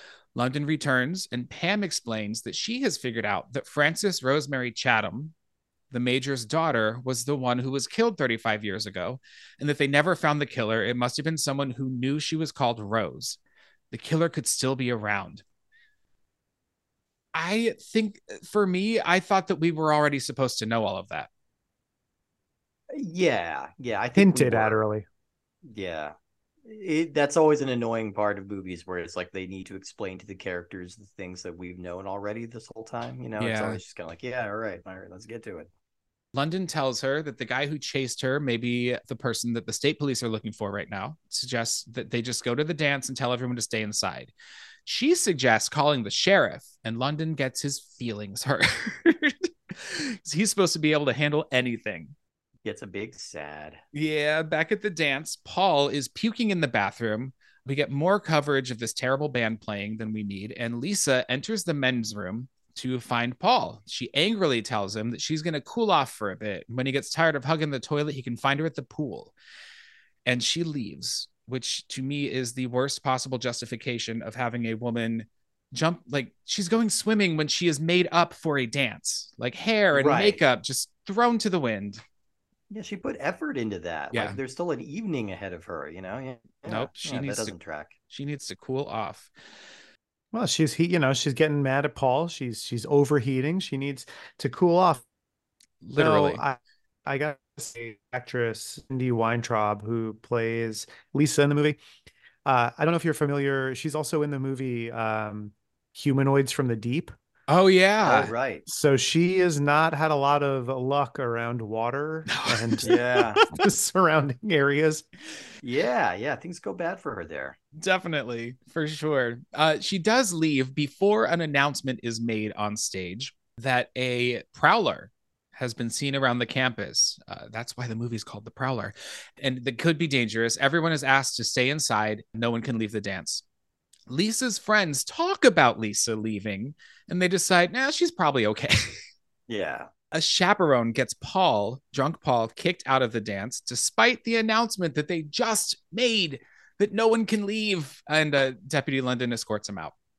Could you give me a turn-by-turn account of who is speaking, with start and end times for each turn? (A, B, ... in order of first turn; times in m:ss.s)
0:00.3-0:05.3 A
0:05.9-0:13.4 A
0:13.9-0:15.4 A
0:17.3-0:21.3 A
0:22.9-0:24.8 B
0:24.2-0:25.0 C
0:25.6-0:26.1 B
0:26.6-0:35.7 B
0:33.4-0:33.8 A
0:36.3-0:44.3 A
0:44.8-0:52.1 A
0:52.6-0:53.8 B
0:53.9-1:09.3 A
1:10.2-1:22.0 A
1:19.9-1:20.4 B
1:22.7-1:27.9 B
1:24.1-1:24.4 A
1:26.7-1:27.5 A
1:28.1-1:29.3 A
1:30.3-1:35.0 C
1:35.8-1:36.4 A
1:36.0-1:41.8 C
1:42.4-1:47.1 C
1:47.5-1:48.3 A
1:48.0-1:48.6 B
1:48.6-1:53.0 C
1:52.3-1:53.6 A
1:52.8-1:53.4 B
1:53.5-1:55.0 C
1:55.6-1:57.6 B
1:57.8-2:13.4 A
2:14.1-2:19.0 A
2:19.5-2:19.9 B
2:20.1-2:29.9 A